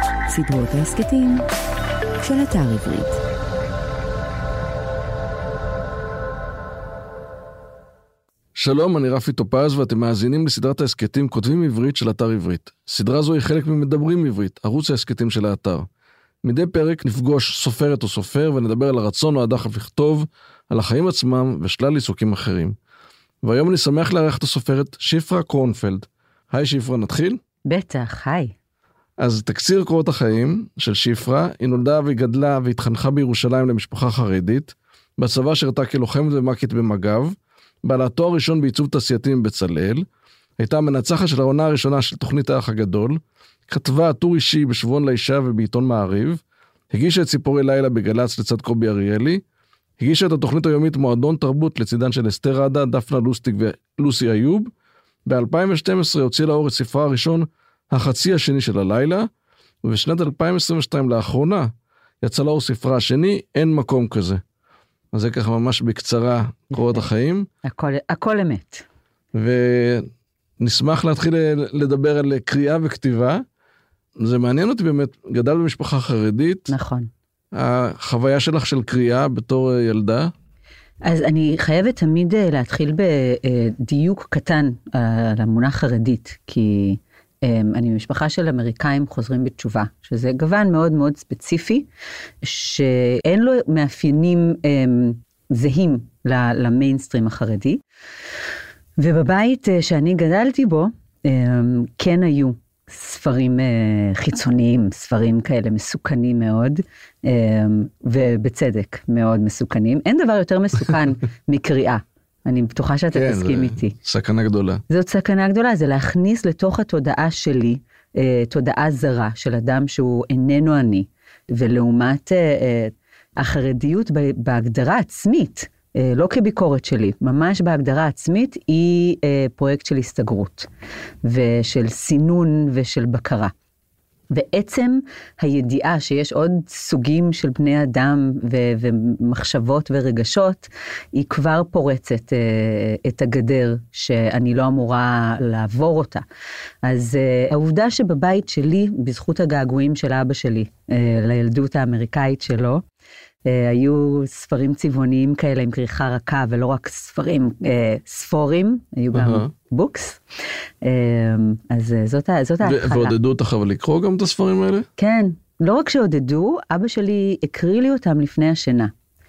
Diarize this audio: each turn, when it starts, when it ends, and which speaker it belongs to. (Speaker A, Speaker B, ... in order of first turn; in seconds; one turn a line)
Speaker A: 0.3-1.4
Speaker A: 2.2-3.2
Speaker B: 8.5-15.9
Speaker B: 16.4-22.8
Speaker B: 23.4-27.4
Speaker C: 27.6-28.5
Speaker B: 29.2-40.0
Speaker B: 40.6-49.4
Speaker B: 50.0-54.7
Speaker B: 55.2-59.3
Speaker B: 59.8-64.4
Speaker B: 65.1-67.5
Speaker C: 67.6-68.8
Speaker B: 69.3-73.4
Speaker B: 74.2-76.7
Speaker C: 76.7-77.1
Speaker B: 77.5-80.3
Speaker C: 81.0-91.9
Speaker C: 92.4-97.8
Speaker C: 99.0-113.9
Speaker B: 113.1-114.8
Speaker C: 114.9-130.7
Speaker C: 131.2-133.5
Speaker C: 134.3-146.2
Speaker C: 146.8-152.8
Speaker C: 153.4-160.2
Speaker B: 159.1-159.5
Speaker C: 160.8-163.1
Speaker B: 162.6-164.9
Speaker C: 165.0-168.9